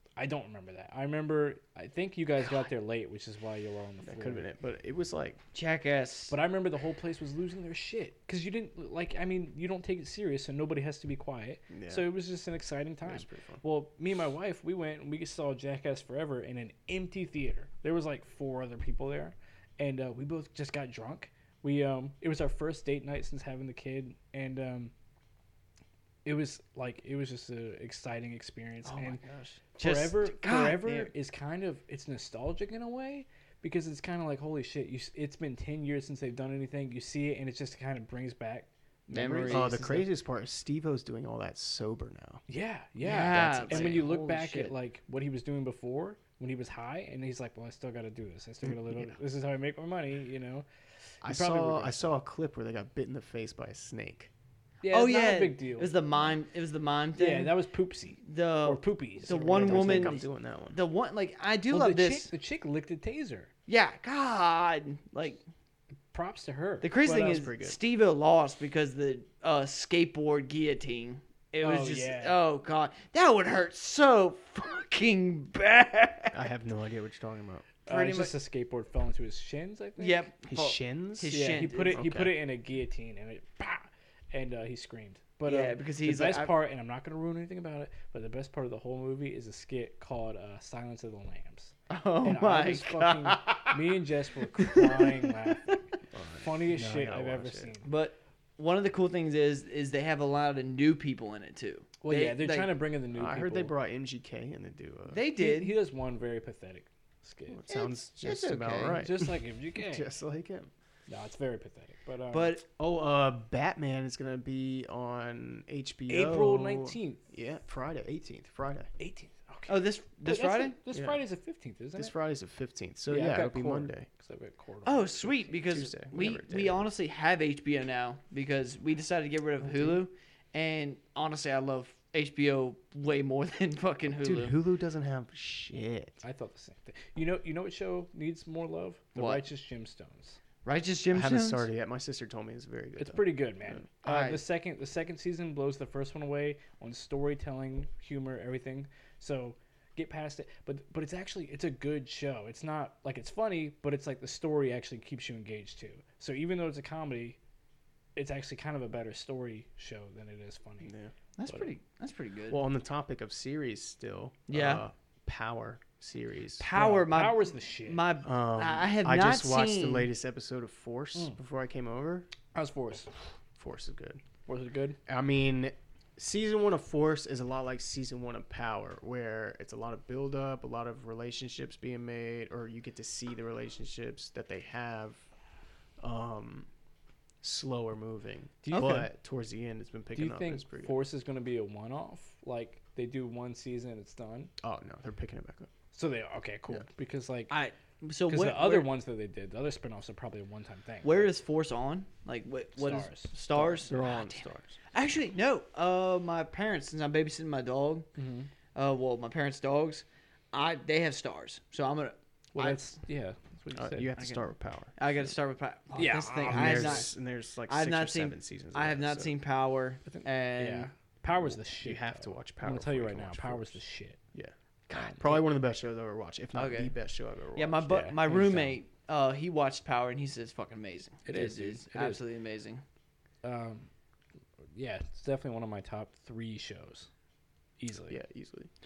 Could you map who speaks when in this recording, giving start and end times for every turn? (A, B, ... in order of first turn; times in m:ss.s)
0:00.2-0:04.5 A
0:04.0-0:05.4 B
0:05.5-0:06.4 C
0:06.3-0:24.9 A
0:11.7-0:12.0 B
0:13.0-0:13.6 B
0:26.2-0:29.2 A
0:28.9-0:31.1 C
0:29.8-0:40.0 A
0:39.1-0:40.0 C
0:39.5-0:42.4 B
0:42.5-0:50.7 A
0:43.0-0:44.7 C
0:43.2-0:44.1 B
0:48.6-0:49.2 B
0:51.2-0:52.1 A
0:51.2-0:54.3 B
0:54.8-0:56.0 A
0:54.9-0:57.5 C
0:57.2-1:00.2 A
0:58.2-1:02.3 C
0:59.3-1:00.8 B
1:01.7-1:03.5 A
1:03.7-1:05.4 C
1:06.1-1:07.4 A
1:06.8-1:16.4 C
1:07.1-1:07.8 B
1:11.6-1:12.4 A
1:16.3-1:17.8 B
1:17.9-1:18.3 C
1:17.9-1:20.3 A
1:20.0-1:22.1 C
1:20.5-1:21.4 B
1:21.3-1:35.9 A
1:21.9-1:22.4 B
1:25.4-1:26.5 C
1:31.9-1:33.8 C
1:34.6-1:35.8 C
1:36.1-1:37.7 B
1:36.4-1:37.9 A
1:37.8-1:42.7 C
1:42.0-1:43.7 A
1:43.1-1:45.2 B
1:45.1-1:45.8 C
1:45.4-1:47.6 A
1:47.5-1:50.7 B
1:47.7-1:49.0 C
1:49.0-1:50.1 A
1:51.1-1:52.6 A
1:52.3-1:52.6 C
1:52.8-1:58.9 B
1:56.1-1:57.2 A
1:59.0-2:02.1 A
1:59.7-2:00.8 C
2:00.9-2:01.2 B
2:02.0-2:04.1 B
2:03.1-2:05.6 A
2:04.8-2:14.6 C
2:05.7-2:06.9 B
2:09.6-2:10.0 B
2:14.2-2:16.2 B
2:16.2-2:20.4 A
2:19.2-2:19.4 C
2:20.6-2:21.7 C
2:21.1-2:23.8 B
2:23.0-2:37.4 A
2:24.0-2:24.4 C
2:38.2-2:40.9 A
2:40.8-2:41.1 B
2:41.4-2:42.6 C
2:42.5-2:46.6 B
2:44.5-2:44.8 C
2:46.6-2:50.1 C
2:46.7-2:48.0 A
2:48.2-2:52.3 B
2:52.5-2:53.1 A
2:53.6-2:54.2 B
2:54.5-2:55.0 A
2:55.1-3:05.2 B
3:06.0-3:06.7 B
3:07.4-3:11.0 B
3:08.6-3:09.1 A
3:10.2-3:14.5 A
3:14.6-3:15.7 B
3:15.9-3:17.5 A
3:17.5-3:18.9 C
3:18.3-3:21.3 A
3:21.0-3:28.1 C
3:22.8-3:23.3 A
3:23.6-3:24.8 B
3:28.2-3:28.5 A
3:28.8-3:32.8 C
3:32.5-3:34.4 A
3:33.7-3:35.0 B
3:35.0-3:37.1 C
3:36.0-3:37.1 A
3:36.5-3:39.3 B
3:37.7-3:40.9 C
3:40.1-3:44.2 A
3:41.4-3:43.8 B
3:44.9-3:45.4 C
3:45.2-3:48.1 B
3:46.6-3:46.9 C
3:47.6-3:52.8 C
3:47.9-3:48.8 A
3:51.3-3:52.2 A
3:53.4-3:53.9 A
3:54.8-3:57.1 A
3:57.8-3:58.2 A
3:58.1-3:58.7 B